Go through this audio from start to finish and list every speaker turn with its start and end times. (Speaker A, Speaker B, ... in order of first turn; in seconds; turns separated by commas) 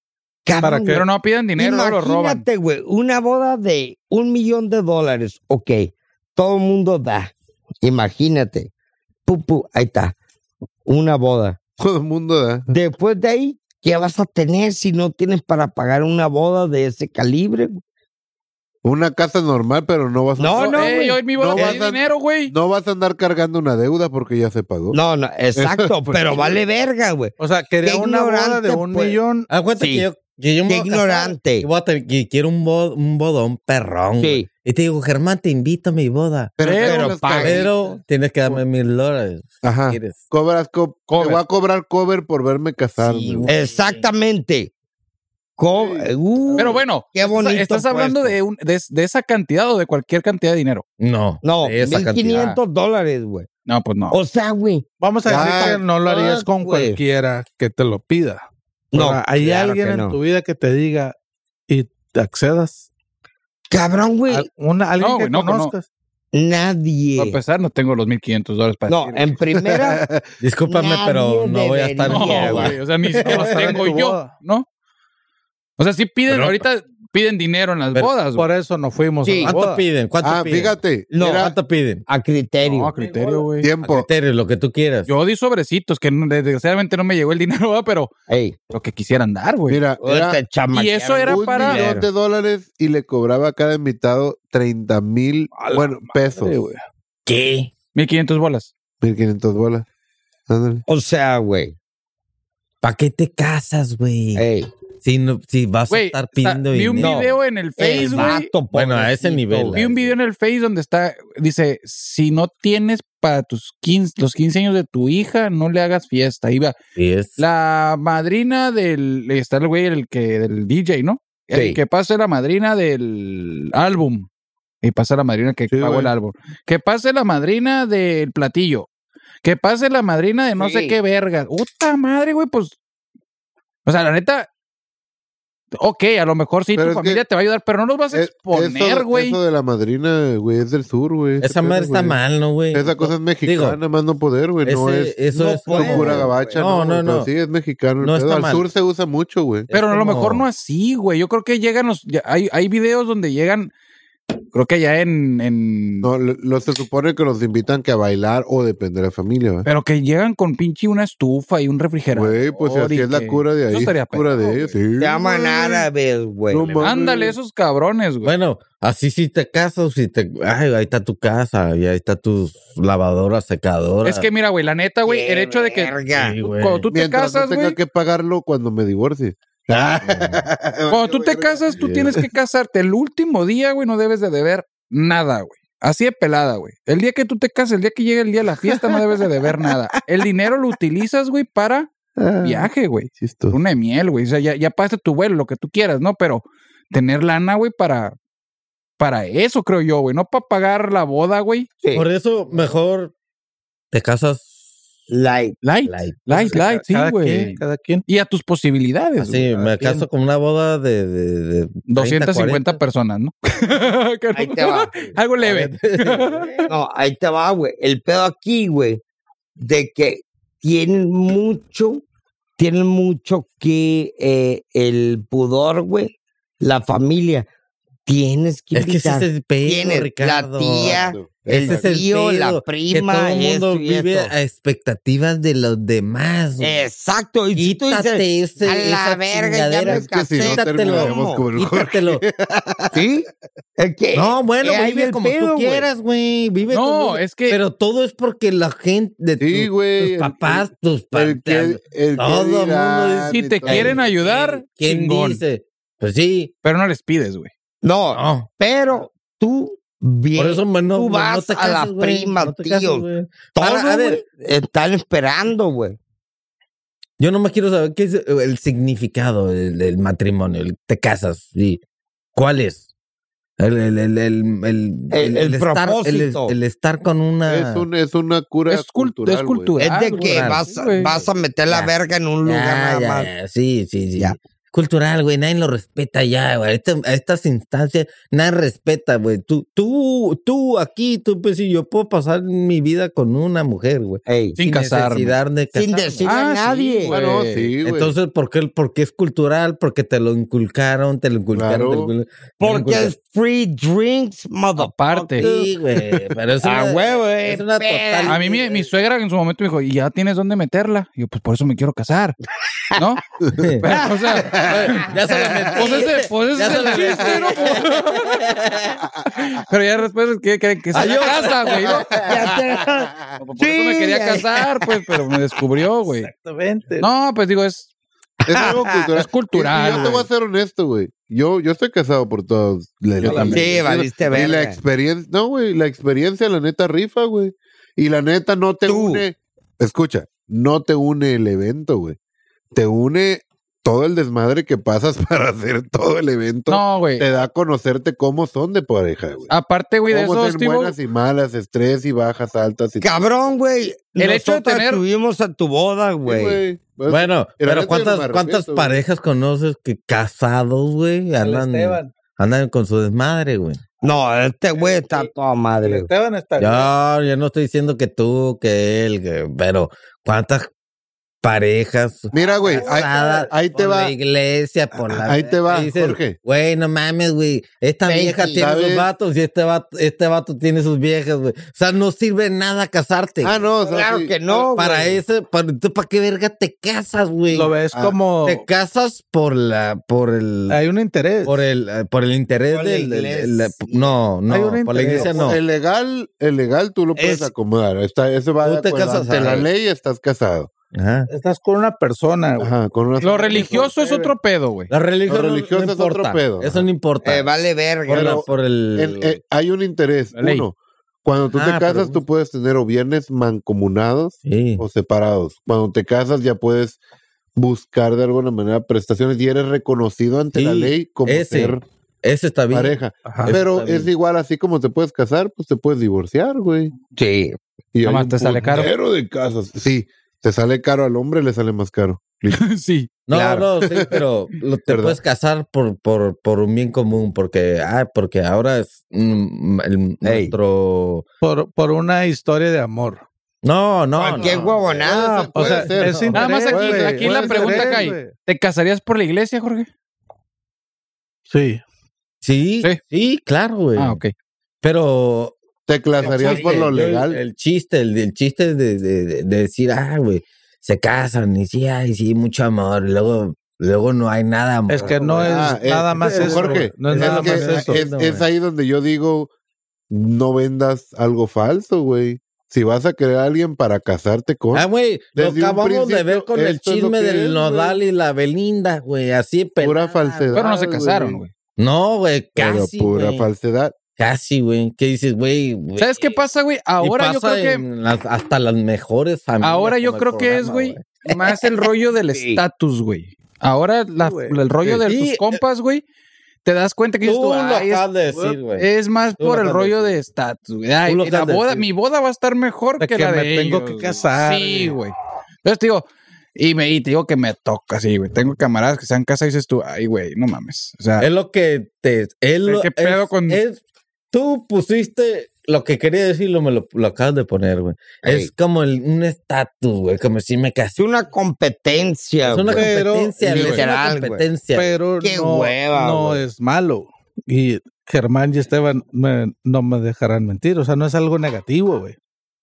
Speaker A: 0.5-1.0, Speaker B: 0.6-1.1, Speaker C: 0.9-2.4, Speaker A: 1.6-8.7, Speaker A: 9.3-10.2, Speaker A: 10.9-11.6, Speaker D: 11.8-12.7, Speaker A: 12.7-17.8, Speaker D: 18.8-25.0, Speaker A: 20.4-21.2, Speaker C: 20.6-22.5, Speaker A: 24.9-29.2, Speaker D: 25.6-26.6, Speaker B: 27.4-29.5, Speaker E: 29.5-36.5, Speaker A: 29.8-30.1, Speaker A: 30.7-31.7, Speaker A: 34.2-34.5, Speaker D: 36.6-38.0, Speaker C: 36.6-37.2, Speaker A: 36.8-37.7, Speaker E: 37.3-40.2, Speaker D: 39.6-43.5, Speaker C: 41.1-41.4, Speaker E: 43.0-44.1, Speaker A: 43.5-44.7, Speaker A: 45.6-48.4, Speaker D: 45.8-46.9, Speaker C: 46.6-50.9, Speaker E: 51.0-52.5, Speaker A: 51.4-53.5, Speaker C: 53.7-54.2, Speaker A: 54.1-57.0, Speaker B: 55.0-61.1, Speaker D: 55.3-55.8, Speaker A: 58.9-60.2, Speaker B: 61.7-62.9, Speaker A: 63.7-64.5, Speaker B: 64.3-65.9, Speaker C: 65.0-65.7, Speaker A: 66.3-67.4, Speaker C: 67.2-69.3, Speaker A: 68.9-70.0, Speaker D: 69.6-70.2, Speaker E: 70.4-73.8, Speaker A: 70.7-72.8, Speaker C: 72.1-74.7, Speaker B: 73.1-74.3, Speaker C: 75.8-78.5, Speaker E: 76.3-76.6, Speaker B: 78.4-79.8, Speaker A: 79.2-79.5, Speaker E: 79.5-82.0, Speaker D: 80.2-81.5, Speaker A: 81.1-81.5, Speaker A: 82.1-82.9, Speaker C: 82.6-83.7, Speaker D: 83.6-84.1, Speaker E: 83.8-85.1, Speaker C: 85.1-88.1, Speaker A: 88.3-88.6, Speaker C: 88.7-89.8, Speaker D: 89.7-90.4, Speaker A: 90.0-91.8, Speaker C: 90.7-91.9, Speaker D: 91.3-96.7, Speaker B: 95.5-96.8, Speaker E: 97.3-97.7, Speaker C: 98.0-98.7, Speaker D: 99.0-99.9, Speaker D: 100.5-100.8, Speaker A: 100.9-101.8, Speaker E: 102.8-104.4, Speaker A: 104.4-104.7, Speaker E: 105.0-107.2, Speaker C: 105.9-108.5, Speaker A: 107.0-109.8, Speaker E: 108.0-110.1, Speaker C: 109.8-116.8, Speaker E: 117.0-117.4, Speaker C: 117.4-124.3, Speaker A: 121.5-121.8, Speaker C: 124.8-128.9, Speaker D: 125.7-126.1, Speaker C: 129.4-132.8, Speaker A: 130.6-131.0, Speaker C: 133.9-134.5, Speaker C: 135.8-139.4, Speaker D: 136.8-137.2, Speaker D: 138.1-142.2, Speaker E: 141.4-143.8, Speaker D: 142.7-145.2, Speaker E: 144.6-147.3, Speaker A: 145.3-146.6, Speaker D: 145.7-149.7, Speaker E: 148.0-148.7, Speaker E: 149.7-150.5, Speaker C: 149.7-153.7, Speaker C: 154.5-156.1, Speaker D: 156.0-159.7, Speaker C: 159.7-164.7, Speaker D: 162.1-165.9, Speaker A: 165.0-166.8, Speaker D: 166.5-167.4, Speaker C: 166.8-168.3, Speaker E: 168.2-174.3, Speaker C: 174.0-175.9, Speaker A: 175.1-176.4, Speaker E: 176.2-176.9, Speaker C: 176.4-177.8, Speaker D: 176.9-182.2, Speaker E: 180.1-180.5, Speaker C: 180.9-191.9, Speaker D: 188.6-189.8, Speaker D: 192.2-193.6, Speaker C: 192.4-198.2, Speaker C: 199.0-201.7, Speaker E: 201.9-203.1, Speaker E: 203.9-204.5, Speaker A: 205.1-205.6, Speaker C: 205.6-210.0, Speaker E: 205.8-206.6, Speaker B: 206.5-208.1, Speaker E: 209.2-212.8, Speaker C: 211.9-216.7, Speaker A: 214.3-215.2, Speaker E: 215.4-216.7, Speaker A: 216.7-219.0, Speaker A: 219.6-222.0, Speaker A: 222.6-227.5, Speaker A: 228.1-234.3, Speaker E: 228.8-236.8, Speaker D: 230.8-231.9, Speaker A: 236.6-241.4, Speaker E: 237.6-242.2, Speaker D: 239.8-243.0, Speaker A: 242.9-245.9, Speaker E: 244.1-256.5, Speaker C: 246.7-247.6, Speaker D: 249.4-254.0, Speaker C: 253.3-255.4, Speaker A: 253.7-253.9, Speaker C: 256.6-257.5, Speaker A: 257.8-266.0, Speaker E: 258.1-258.5, Speaker E: 260.4-264.2, Speaker E: 267.2-271.8, Speaker E: 272.4-272.9, Speaker E: 273.6-277.9, Speaker A: 275.1-276.6, Speaker D: 277.5-279.8, Speaker C: 278.7-281.1, Speaker A: 279.8-283.3, Speaker E: 280.1-281.9, Speaker E: 282.4-296.3, Speaker A: 294.3-294.6, Speaker C: 294.6-295.4, Speaker A: 295.7-297.1, Speaker C: 296.2-297.7, Speaker D: 297.1-298.1, Speaker E: 297.8-303.1, Speaker D: 301.5-302.1, Speaker A: 302.6-305.7, Speaker C: 304.8-305.5, Speaker E: 305.4-308.9, Speaker A: 306.6-308.4, Speaker C: 308.3-312.4, Speaker C: 313.0-313.2, Speaker E: 313.6-313.9, Speaker C: 313.8-315.1, Speaker D: 314.4-315.6, Speaker E: 314.5-319.0, Speaker C: 315.7-318.4, Speaker D: 317.1-317.4, Speaker D: 319.1-319.6, Speaker C: 319.3-322.1, Speaker E: 320.9-322.5, Speaker A: 322.1-324.9, Speaker D: 322.1-323.4, Speaker C: 323.4-326.3, Speaker B: 326.0-327.1, Speaker C: 327.0-327.9, Speaker A: 328.5-329.1, Speaker D: 328.5-342.2, Speaker C: 329.1-330.3, Speaker A: 333.2-334.8, Speaker B: 333.2-333.6, Speaker A: 338.9-339.3, Speaker D: 342.7-349.5, Speaker C: 346.7-347.3, Speaker C: 349.5-351.0, Speaker D: 350.1-353.2, Speaker A: 353.0-356.6, Speaker C: 354.2-355.0, Speaker D: 356.3-359.0, Speaker E: 357.1-363.8, Speaker B: 361.4-362.1, Speaker A: 364.0-366.1, Speaker B: 364.9-365.3, Speaker B: 365.8-366.9, Speaker E: 366.6-370.7, Speaker E: 371.4-383.6, Speaker D: 372.3-374.1, Speaker B: 372.7-373.5, Speaker D: 375.0-376.4, Speaker A: 378.1-378.6, Speaker D: 378.6-379.1, Speaker D: 383.4-384.7, Speaker A: 383.9-385.2, Speaker E: 384.8-387.8, Speaker B: 387.5-388.6, Speaker E: 388.4-390.8, Speaker B: 390.7-391.6, Speaker E: 391.4-395.6, Speaker A: 392.7-394.2, Speaker B: 394.5-395.6, Speaker D: 395.1-400.7, Speaker A: 397.2-397.5, Speaker E: 398.6-399.7, Speaker E: 400.9-401.3, Speaker B: 401.3-404.3, Speaker D: 402.6-403.9, Speaker C: 403.2-404.9, Speaker E: 404.9-409.4, Speaker D: 405.3-406.9, Speaker A: 407.2-408.4, Speaker D: 408.1-417.0, Speaker C: 410.4-410.7, Speaker E: 411.5-412.2, Speaker E: 414.4-414.9, Speaker D: 417.6-421.8, Speaker E: 420.5-424.1, Speaker D: 422.7-426.9, Speaker B: 423.2-423.6, Speaker A: 427.2-427.6, Speaker D: 427.9-432.6, Speaker C: 428.1-428.9, Speaker B: 428.6-428.9, Speaker C: 432.5-433.1, Speaker E: 433.3-441.2, Speaker A: 433.3-433.7, Speaker D: 433.8-434.2, Speaker D: 434.9-435.2, Speaker A: 440.2-440.6, Speaker B: 441.4-443.2, Speaker E: 443.6-444.6, Speaker A: 444.3-445.8, Speaker D: 444.3-448.1, Speaker B: 445.1-448.3, Speaker C: 446.3-449.9, Speaker B: 451.5-451.8, Speaker E: 452.4-454.2, Speaker C: 454.0-454.3, Speaker E: 454.8-455.6, Speaker D: 455.9-457.4, Speaker E: 456.2-468.5, Speaker A: 456.2-457.2, Speaker B: 464.9-468.1, Speaker D: 465.4-469.5, Speaker D: 470.1-478.0, Speaker E: 474.7-480.5, Speaker D: 479.8-481.4, Speaker C: 480.5-481.5, Speaker E: 481.8-483.5, Speaker D: 482.6-484.0, Speaker E: 484.2-486.4, Speaker C: 486.0-487.8, Speaker E: 487.0-491.1, Speaker C: 489.6-496.0, Speaker A: 492.3-492.6, Speaker B: 494.2-494.6, Speaker E: 494.9-495.6, Speaker C: 496.6-498.1, Speaker E: 497.2-500.2, Speaker B: 498.3-498.6, Speaker C: 498.7-506.0, Speaker E: 501.1-501.9, Speaker B: 503.0-505.0, Speaker C: 506.6-511.3, Speaker E: 511.2-513.8, Speaker C: 512.6-513.6, Speaker E: 514.3-521.0, Speaker A: 518.2-518.5, Speaker A: 521.0-524.4, Speaker E: 522.4-525.0, Speaker B: 522.7-523.4, Speaker C: 523.5-523.8, Speaker B: 524.7-532.2, Speaker A: 525.2-526.4